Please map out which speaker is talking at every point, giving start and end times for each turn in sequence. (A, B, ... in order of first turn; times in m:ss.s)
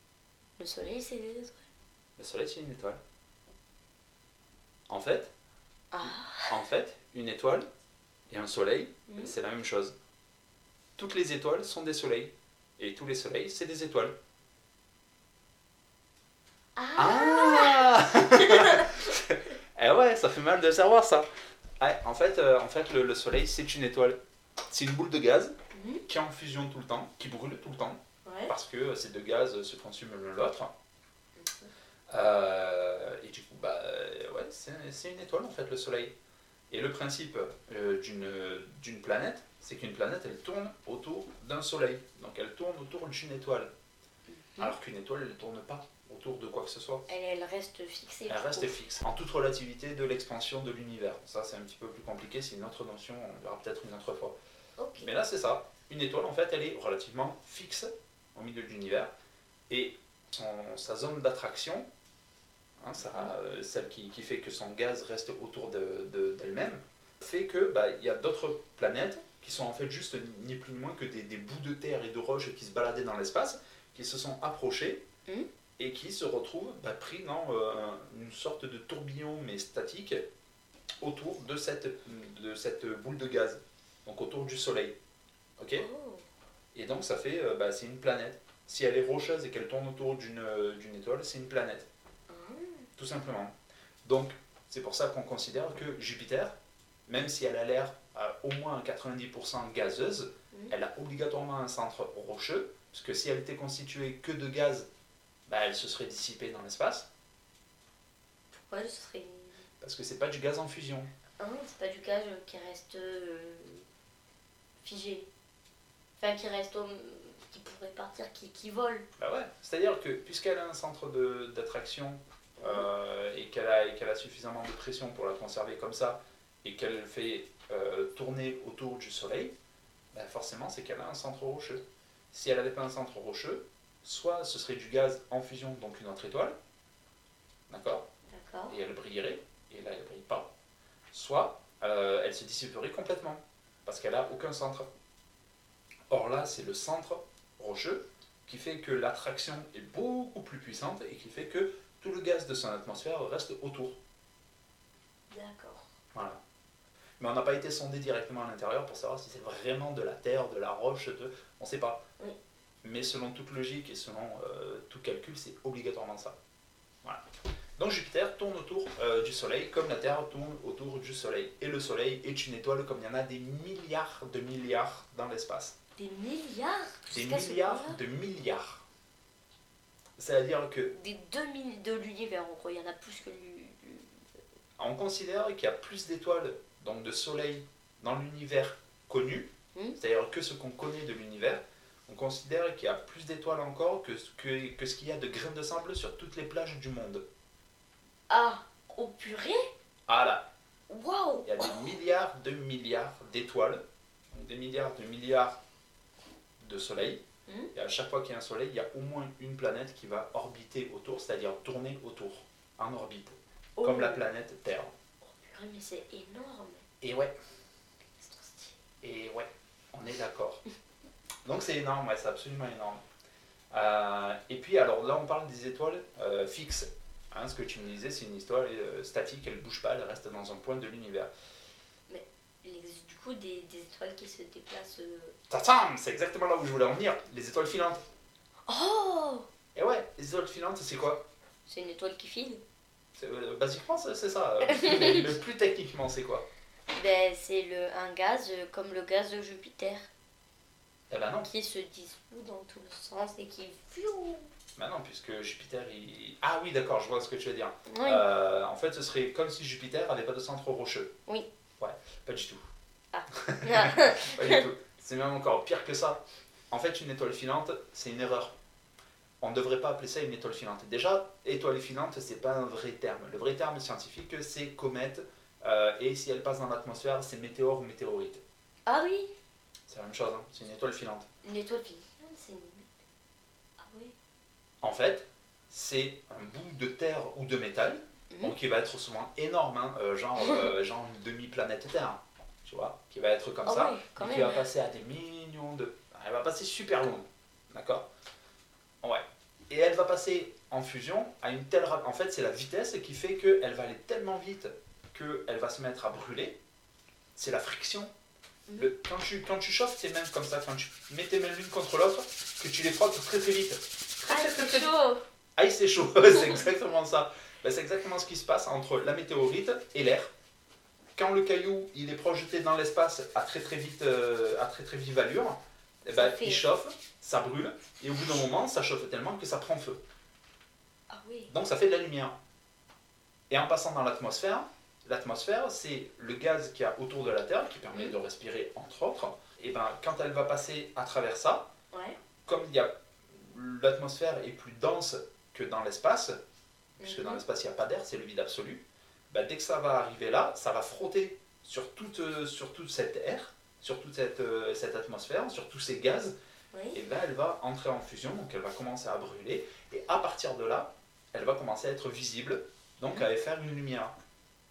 0:00.6-0:01.7 A
0:02.2-0:03.0 B
0:04.9-0:05.3 B
0:05.9-0:06.6 A
0:06.0-0:07.6 B
0:08.3-0:09.9 B
0:09.1-0:09.3 A
0:11.0-0:14.1 B
0:16.8-0:19.0 A
0:17.0-0:21.2 B
0:21.8-0:24.2 B
0:24.7-0:30.7 B
0:25.7-0:26.0 A
0:28.2-0:28.5 A
0:31.4-0:31.7 A
0:32.1-0:36.1 B
0:36.7-0:43.7 B
0:44.3-0:44.7 A
0:44.6-0:47.0 B
0:47.1-0:48.7 A
0:48.3-0:54.4 B
0:54.8-0:55.1 A
0:55.0-0:59.1 B
0:59.7-1:01.9 B
1:02.8-1:15.0 B
1:15.8-1:20.2 B
1:21.0-1:25.0 B
1:25.6-1:25.8 B
1:25.8-1:26.2 A
1:26.7-1:31.9 B
1:32.3-1:32.9 A
1:33.0-1:33.5 B
1:34.0-1:36.5 B
1:37.1-1:44.9 B
1:45.5-1:47.1 B
1:48.5-1:49.6 A
1:49.8-1:51.1 B
1:51.4-1:53.8 A
1:54.8-1:55.3 A
1:56.2-1:59.0 A
1:59.2-2:09.5 B
2:02.6-2:02.9 A
2:10.1-2:16.5 B
2:17.7-2:18.0 B
2:18.3-2:18.8 A
2:18.7-2:20.5 B
2:21.1-2:24.9 B
2:26.1-2:34.0 B
2:35.3-2:35.9 A
2:36.1-2:36.4 B
2:37.2-2:42.0 B
2:42.8-2:46.4 B
2:47.8-2:55.8 B
2:56.0-2:58.0 A
2:57.1-2:58.8 B
3:00.2-3:00.9 B
3:00.9-3:04.2 A
3:04.8-3:17.2 B
3:18.3-3:19.7 A
3:20.1-3:20.5 B
3:20.9-3:21.9 A
3:21.4-3:25.6 B
3:26.6-3:27.2 B
3:27.5-3:27.7 A
3:27.7-3:34.9 B
3:33.8-3:34.2 A
3:35.2-3:36.8 A
3:37.0-3:37.3 B
3:38.2-3:38.8 A
3:39.0-3:40.6 B
3:41.4-3:43.0 B
3:43.7-3:51.3 B
3:52.1-3:55.4 A
3:55.5-3:58.0 B
3:58.7-3:59.5 A
3:59.7-4:01.2 B
4:01.7-4:02.6 A
4:03.2-4:06.4 B
4:04.6-4:05.3 A
4:06.9-4:10.1 A
4:11.1-4:11.5 B
4:11.4-4:14.5 A
4:14.8-4:21.1 B
4:17.9-4:18.2 A
4:21.8-4:22.6 B
4:23.1-4:24.6 A
4:23.3-4:28.5 B
4:29.4-4:38.4 B
4:38.8-4:39.3 A
4:39.9-4:41.3 B
4:41.4-4:42.9 A
4:43.8-4:44.1 A
4:44.8-4:58.1 B
4:50.4-4:50.7 A
4:53.6-4:54.6 A
4:59.0-5:06.6 B
5:07.3-5:08.1 B
5:08.8-5:14.9 B
5:14.3-5:15.2 A
5:15.6-5:20.3 B
5:21.2-5:30.0 B
5:26.1-5:26.6 A
5:31.1-5:31.5 A
5:31.5-5:32.4 B
5:33.5-5:41.7 B
5:41.9-5:42.2 A
5:42.4-5:46.4 B
5:47.0-5:56.3 B
5:47.0-5:47.4 A
5:56.7-5:57.0 A
5:56.9-6:04.1 B